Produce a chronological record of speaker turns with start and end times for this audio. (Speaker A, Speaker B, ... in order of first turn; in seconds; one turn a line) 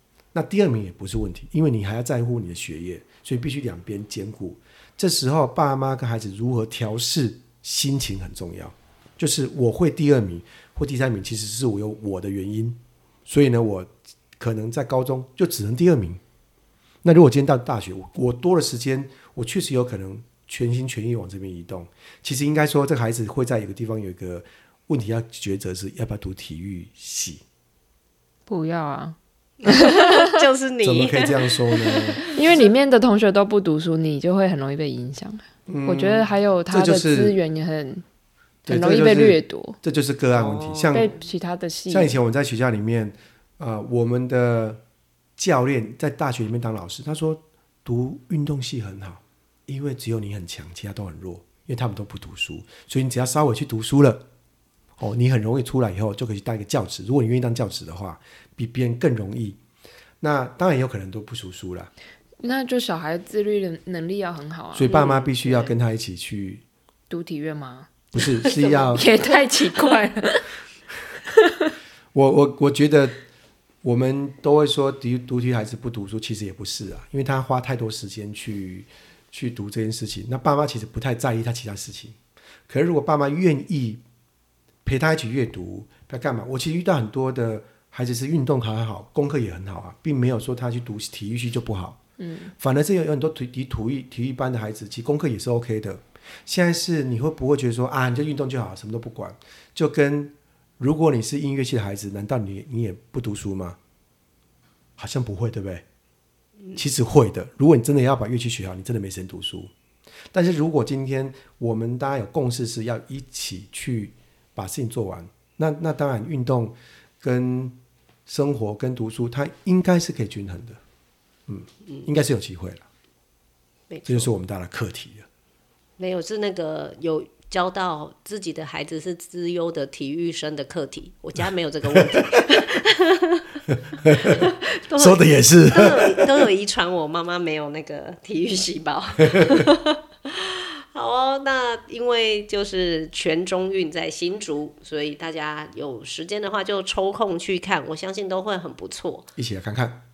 Speaker A: 0.3-16.2
Speaker A: 17.0-27.4
Speaker B: 28.5-30.4
Speaker C: 29.6-32.3
Speaker A: 30.8-32.2
Speaker B: 32.3-38.0
Speaker A: 35.7-37.4
Speaker B: 38.7-39.8
Speaker A: 38.7-41.1
Speaker C: 40.3-41.2
Speaker B: 40.9-42.2
Speaker A: 41.9-44.8
Speaker A: 45.4-54.2
Speaker A: 55.0-59.6
Speaker A: 60.2-61.9
Speaker B: 62.4-64.9
Speaker A: 64.7-66.6
Speaker C: 64.9-65.7
Speaker B: 67.1-68.0
Speaker A: 68.1-69.1
Speaker C: 68.2-69.1
Speaker B: 68.9-70.5
Speaker B: 71.4-71.7
Speaker A: 72.1-73.2
Speaker A: 73.8-84.0
Speaker A: 84.8-92.0
Speaker B: 92.2-92.5
Speaker A: 92.6-103.8
Speaker A: 105.0-105.8
Speaker A: 106.8-109.7
Speaker A: 110.3-120.8
Speaker A: 121.5-122.9
Speaker C: 123.9-124.3
Speaker A: 124.1-125.3
Speaker C: 126.0-149.3
Speaker A: 134.0-134.5
Speaker A: 135.0-136.4
Speaker A: 139.2-139.7
Speaker A: 149.4-150.1